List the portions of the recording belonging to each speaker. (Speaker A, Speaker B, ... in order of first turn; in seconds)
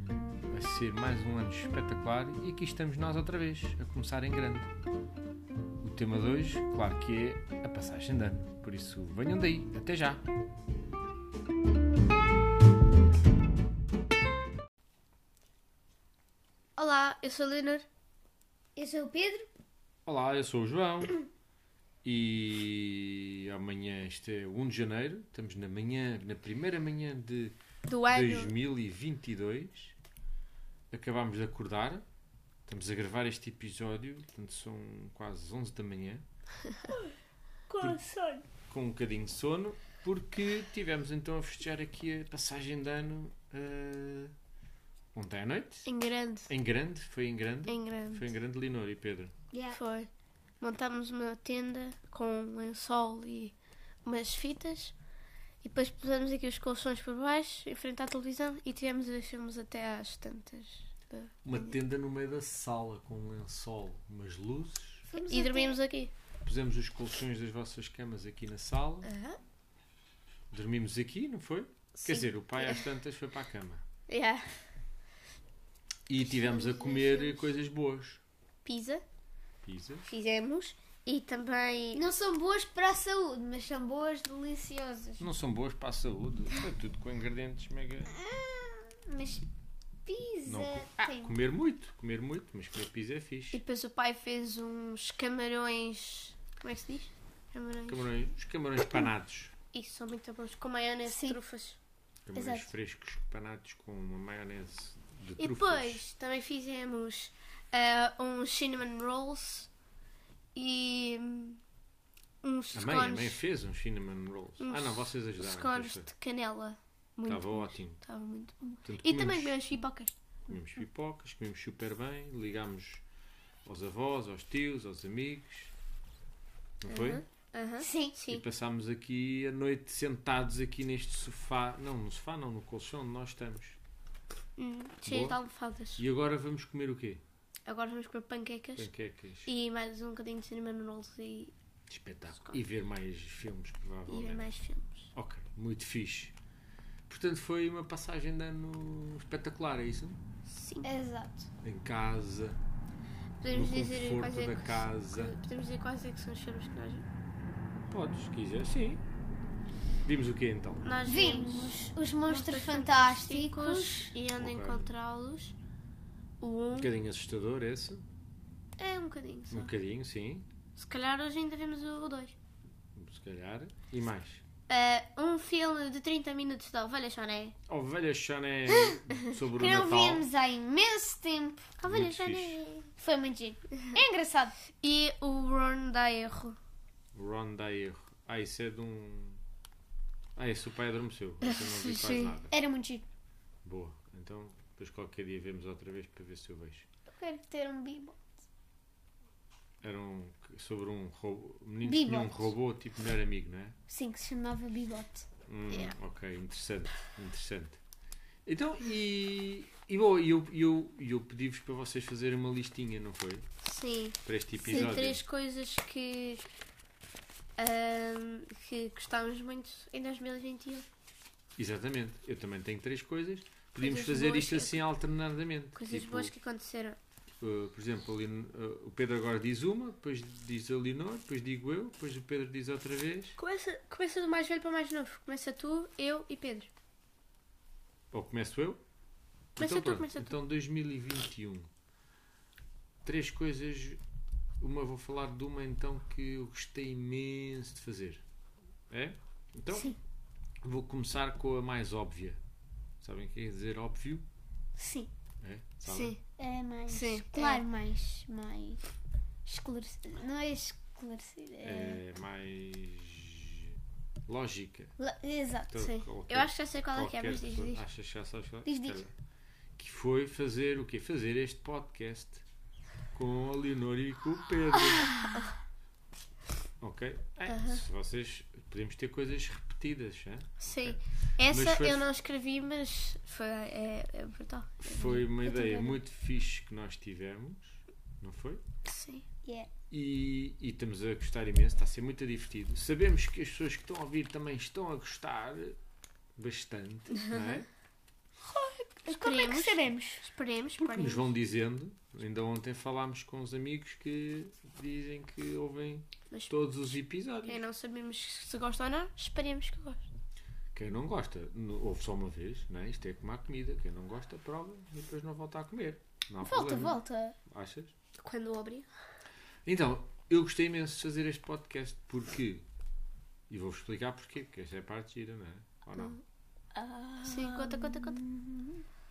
Speaker A: 0.5-4.7, 5.8-10.2, 20.1-21.2, 22.0-27.6, 28.1-29.9, 30.9-32.0, 32.7-36.2, 38.7-44.3, 45.1-45.9, 46.5-49.3, 61.4-65.1, 66.4-69.1, 70.5-73.8, 76.1-78.2, 79.6-80.1, 85.2-88.2, 90.5-93.6, 97.9-99.5, 102.3-106.0, 112.7-116.1, 117.3-118.0, 118.8-119.7, 120.5-123.0, 123.6-125.7, 126.8-127.2, 128.3-133.8, 135.1-135.4, 136.0-137.2, 138.8-139.5, 141.9-144.6, 145.1-146.3, 147.1-150.2, 151.6-152.6, 153.5-155.3, 157.9-159.0, 160.0-160.9, 164.3-164.9, 166.7-168.0, 169.5-170.4, 172.9-174.4, 177.7-180.2, 181.9-182.6, 187.1-189.4, 190.3-192.5, 193.6-196.8, 199.8-203.8, 205.5-207.8, 208.4-213.4, 214.2-215.2, 221.6-226.3, 227.4-233.4, 238.1-238.8, 239.6-241.7, 243.0-244.0, 244.6-248.2, 248.9-249.9, 250.6-252.4, 253.0-254.2, 255.4-256.1, 261.6-263.8, 264.3-264.9, 265.7-269.1, 269.8-272.4, 273.1-275.3, 276.8-282.1, 284.8-288.6, 289.9-295.8, 296.4-297.7, 300.8-307.6, 310.7-317.9, 319.6-322.6, 323.5-326.2
Speaker B: 16.8-17.9, 27.9-28.5, 45.9-46.5, 47.6-48.2, 49.7-50.1, 50.6-54.9, 55.6-61.7, 65.3-66.1, 69.0-69.4, 72.0-72.9, 74.1-74.4, 78.6-79.0, 80.0-82.1, 93.5-98.1, 99.7-101.8, 105.4-109.7, 110.5-111.6, 112.4-113.4, 114.6-120.1, 126.9-128.4, 134.6-136.0, 137.7-138.9, 139.4-141.5, 142.3-142.6, 144.1-145.1, 150.5-150.9, 153.4-157.1, 160.8-165.6, 166.4-166.9, 168.8-169.7, 170.8-172.3, 174.7-177.6, 179.6-179.8, 181.8-182.9, 184.8-186.6, 191.4-192.3, 205.7-205.9, 213.6-216.4, 217.6-220.8, 223.8-224.8, 225.7-227.0, 233.4-236.7, 239.6-240.4, 255.8-256.2, 256.9-257.6, 265.8-267.8, 275.2-275.5, 277.5-277.8, 280.6-285.1, 288.9-289.3, 297.2-297.6, 299.1-301.3, 307.4-310.0, 318.2-318.9, 327.2-328.2
Speaker C: 18.8-19.5, 37.7-38.4, 49.5-49.8, 65.1-65.8, 76.2-77.5, 81.9-85.3, 88.1-89.4, 90.0-91.4, 101.1-101.4, 102.3-102.7, 127.8-128.2, 150.8-151.5, 161.0-164.1, 179.6-181.7, 182.9-184.5, 192.5-193.1, 197.1-198.3, 201.8-202.5, 203.9-205.2, 249.7-250.0, 254.8-255.1, 256.4-258.8, 259.4-262.0, 265.0-265.8, 268.6-269.1, 285.0-286.0, 289.4-289.7, 298.5-300.2, 316.4-317.4, 326.8-328.8